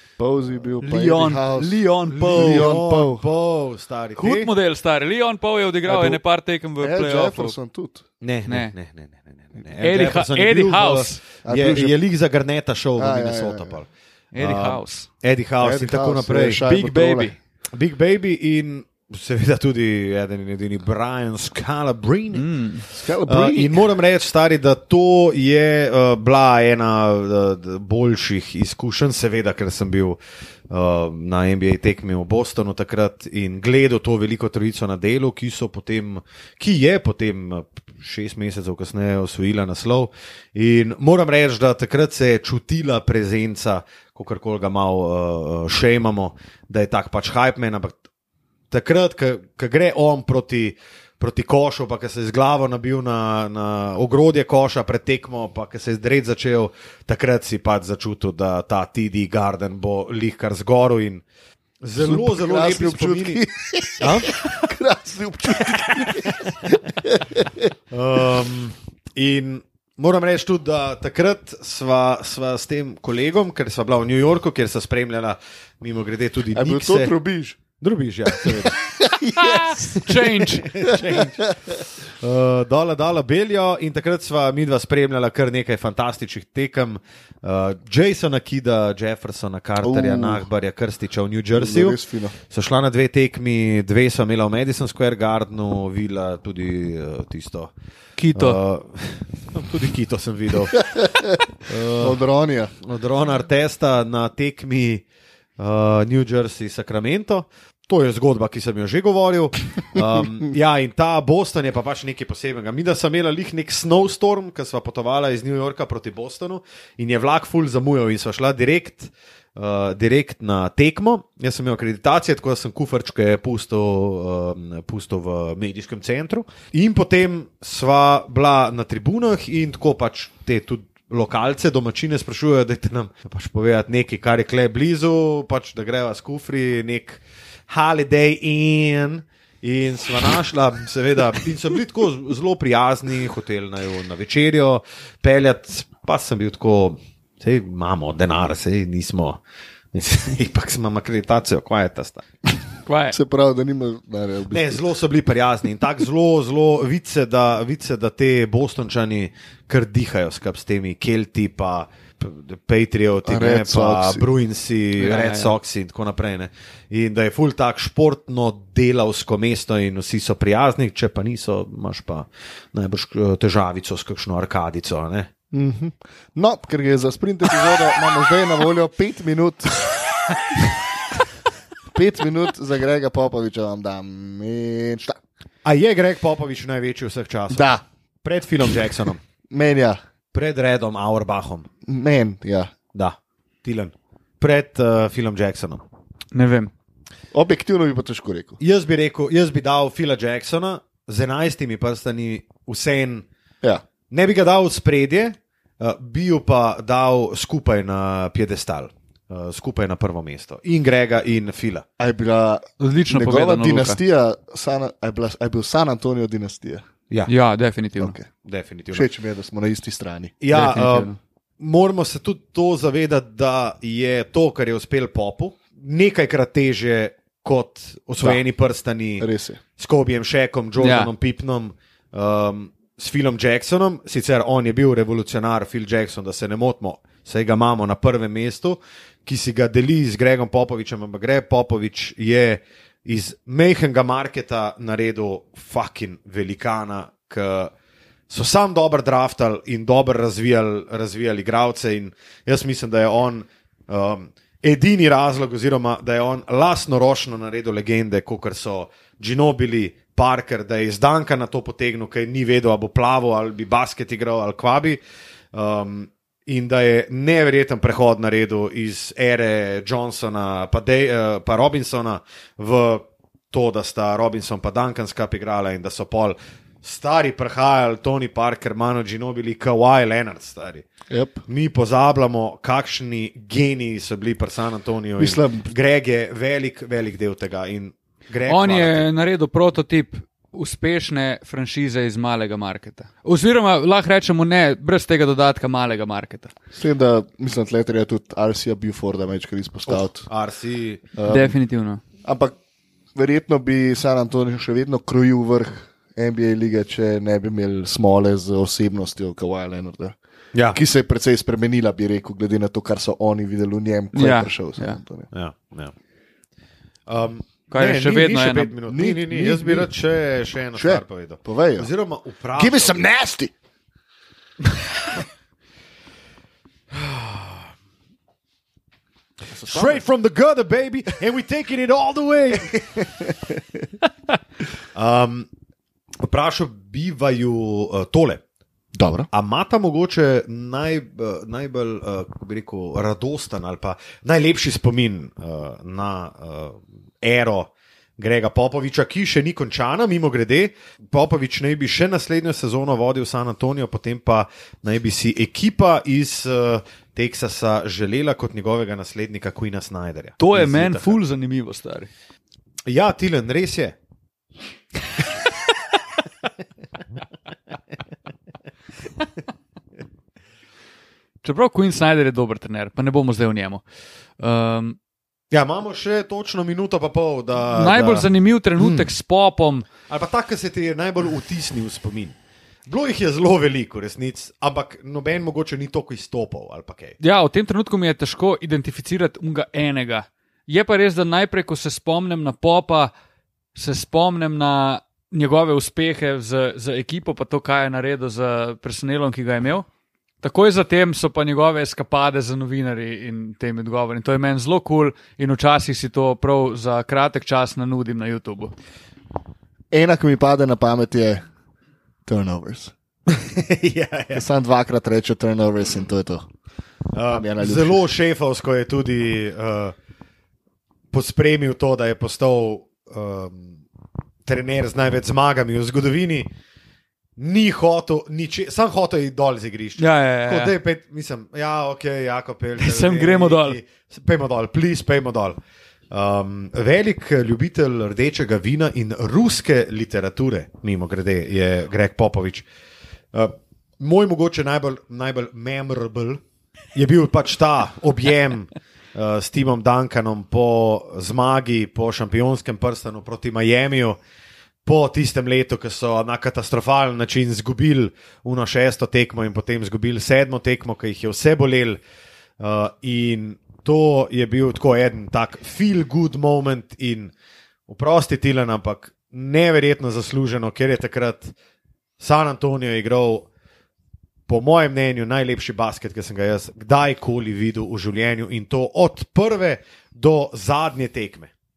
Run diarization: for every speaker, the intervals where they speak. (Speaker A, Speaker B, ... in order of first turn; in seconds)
Speaker A: 0.2-3.3, 5.9-6.2, 6.8-8.0, 11.4-12.0, 13.0-13.8, 15.6-17.3, 22.9-23.9, 62.0-67.7, 76.5-77.6, 78.3-79.8, 80.9-81.7, 89.8-90.5, 91.5-92.3, 100.8-101.4, 102.0-102.7, 153.1-154.8, 163.2-164.3, 175.5-179.8, 181.9-185.2, 187.5-187.8, 189.5-190.0, 191.8-192.7, 197.3-198.6, 212.0-216.8, 218.0-218.3, 218.9-220.3, 229.2-229.6, 281.1-281.4, 285.2-285.7, 296.7-300.2, 301.2-301.5, 302.2-302.6, 303.1-310.2, 310.7-315.3, 318.9-319.9, 320.8-321.9, 322.6-323.5, 329.5-330.0, 338.9-339.3, 409.9-411.4, 412.2-412.9, 414.3-416.5, 417.3-418.0
Speaker B: 0.8-2.7, 4.2-7.5, 8.5-8.7, 9.8-11.2, 14.3-15.1, 16.6-17.3, 22.3-22.8, 79.3-80.7, 98.2-98.6, 152.8-153.2, 165.0-165.5, 196.3-196.7, 212.8-214.0, 217.3-218.1, 220.5-221.2, 230.8-231.1, 288.5-296.5, 301.3-302.0, 314.1-315.0, 317.7-318.7, 360.4-362.1, 371.4-373.8, 374.4-375.0, 377.7-379.9, 387.2-393.1, 393.7-399.9, 400.4-408.7, 430.0-430.7, 432.8-433.8
Speaker C: 2.1-4.5, 8.2-16.7, 17.7-22.5, 23.2-30.2, 30.7-48.0, 48.7-61.2, 61.8-63.4, 64.0-64.4, 65.7-66.5, 67.9-77.1, 77.8-78.8, 80.0-97.7, 98.3-102.2, 102.8-105.0, 105.6-149.4, 149.9-152.2, 154.5-175.3, 185.6-189.2, 190.3-191.7, 192.9-195.8, 198.6-203.2, 204.1-211.8, 218.4-219.1, 220.4-247.7, 248.3-265.0, 265.5-280.9, 281.5-289.1, 299.9-301.1, 310.5-310.8, 315.3-315.9, 317.1-323.0, 326.9-327.6, 329.6-333.0, 334.9-335.5, 336.2-338.4, 339.3-361.2, 362.9-363.9, 375.5-379.1, 380.1-382.3, 382.9-387.2, 413.3-414.4, 417.1-419.9, 421.1-423.8, 424.4-426.5, 427.4-435.6, 436.1-442.6, 443.3-446.4, 446.9-454.2, 454.8-462.0, 462.6-467.3, 467.9-471.5, 472.2-473.5, 474.5-481.5